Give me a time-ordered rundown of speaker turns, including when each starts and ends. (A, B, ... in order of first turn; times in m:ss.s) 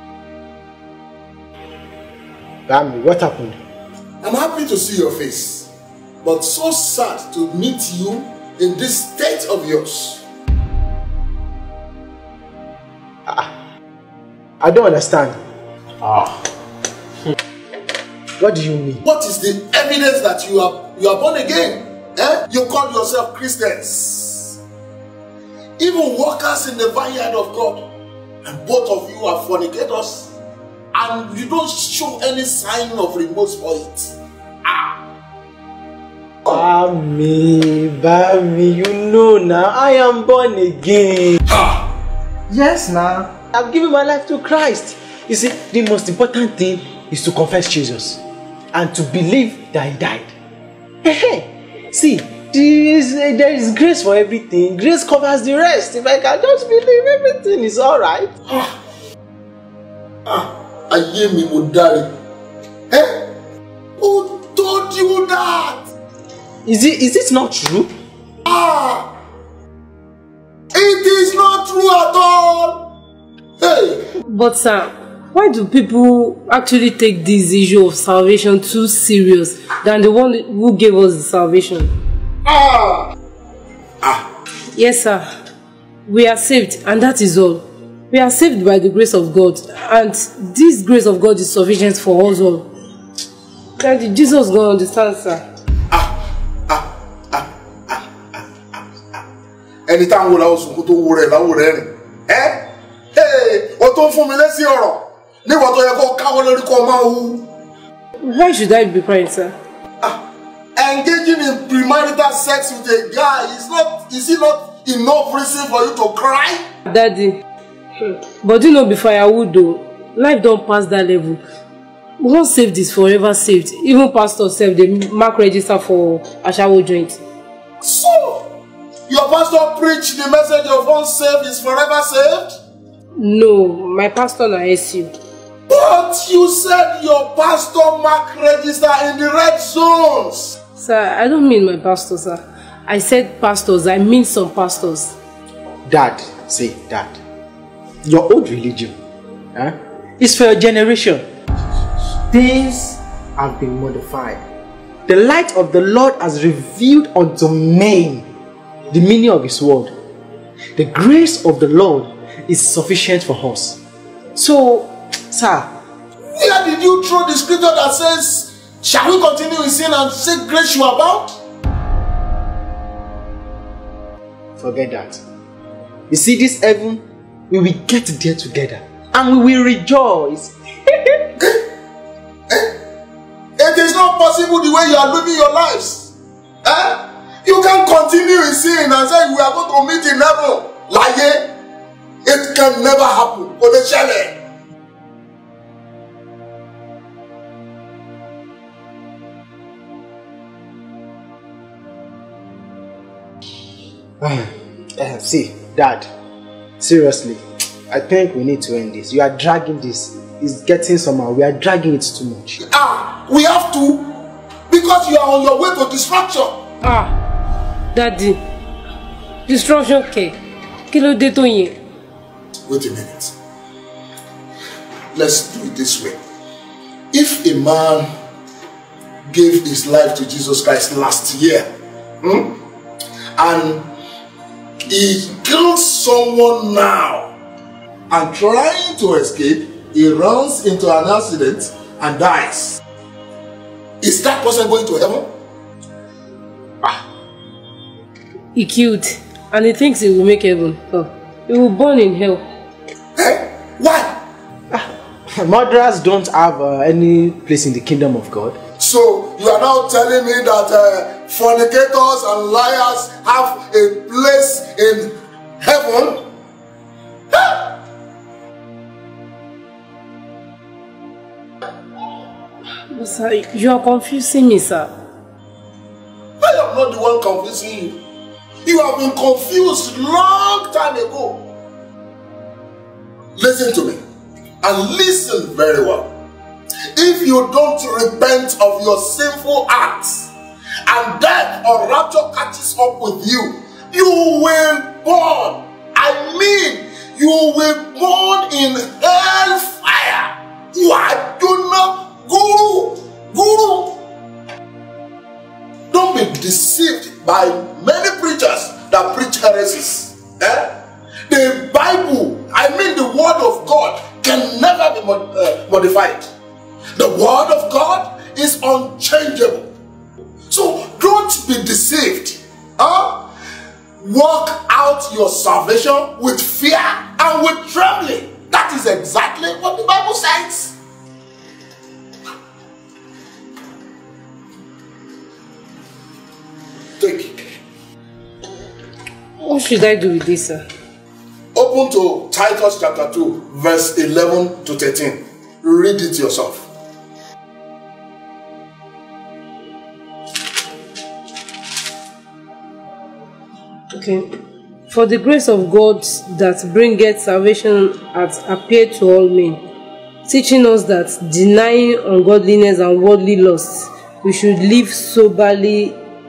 0:02.7-0:03.6 A
0:04.2-0:05.7 B
0:06.2-0:10.2 B
0:14.6-0:15.4 A
0:16.0-0:16.3 A
0:18.4-0:19.0 A
0:19.0-0:24.6 B
0:25.8-0:27.9 B
0:28.4-0:30.3 B
0:30.9-0:34.2 B
0:34.7-0:34.9 B
0:36.4-0:41.4 A
0:41.5-0:41.9 B
0:42.5-0:48.2 A
0:48.7-0:50.3 A
0:51.0-0:58.3 A
1:00.3-1:02.1 B
1:02.9-1:03.3 B
1:04.0-1:05.9 B
1:06.6-1:07.9 A
1:08.5-1:09.1 B
1:10.7-1:12.8 B
1:13.6-1:14.0 B
1:14.2-1:21.9 C
1:22.4-1:23.1 B
1:24.0-1:24.3 B
1:24.7-1:25.2 C
1:26.1-1:32.7 C
1:33.8-1:35.4 C
1:35.9-1:38.1 B
1:38.7-1:39.2 B
1:39.9-1:47.5 B
1:48.2-1:49.5 C
1:50.8-1:56.7 B
1:56.9-1:57.4 C
1:58.0-2:01.4 C
2:02.2-2:07.2 C
2:07.8-2:08.5 B
2:09.1-2:12.5 B
2:13.2-2:15.1 C
2:15.7-2:20.6 B
2:20.8-2:25.2 C
2:25.9-2:27.2 A
2:28.0-2:28.9 A
2:29.6-2:31.2 A
2:32.3-2:34.4 A
2:35.1-2:38.3 A
2:38.9-2:39.9 A
2:40.8-2:43.8 A
2:44.4-2:45.7 A
2:46.4-2:51.4 B
2:54.6-2:55.2 A
2:56.1-3:01.3 A
3:02.5-3:02.8 B
3:03.6-3:06.1 B
3:06.6-3:11.5 B
3:12.2-3:14.4 B
3:24.2-3:26.1 A
3:26.8-3:32.6 A
3:32.6-3:34.1 B
3:34.7-3:36.6 B
3:36.8-3:37.2 C
3:37.9-3:38.4 C
3:39.5-3:40.4 C
3:40.9-3:41.8 C
3:42.7-3:43.3 B
3:45.1-3:46.2 B
3:47.1-3:48.1 B
3:49.3-3:51.7 B
3:52.2-3:52.6 B
3:53.4-3:53.9 B
3:54.9-3:57.3 B
3:58.1-4:02.8 B
4:04.0-4:05.3 B
4:08.6-4:12.4 C
4:13.2-4:14.2 B
4:14.7-4:18.6 A
4:18.8-4:26.2 B
4:27.3-4:27.7 B
4:32.9-4:34.9 C
4:36.4-4:38.0 B
4:38.7-4:41.5 B
4:43.4-4:44.0 B
4:44.6-4:46.1 B
4:47.0-4:50.3 B
4:50.9-5:04.0 B
5:05.9-5:16.3 B
5:17.0-5:19.7 B
5:20.5-5:23.3 B
5:24.0-5:30.8 B
5:37.0-5:37.4 B
5:39.4-5:40.6 C
5:41.6-5:46.7 B
5:53.9-5:54.2 C
5:54.9-5:59.6 C
6:00.2-6:06.0 C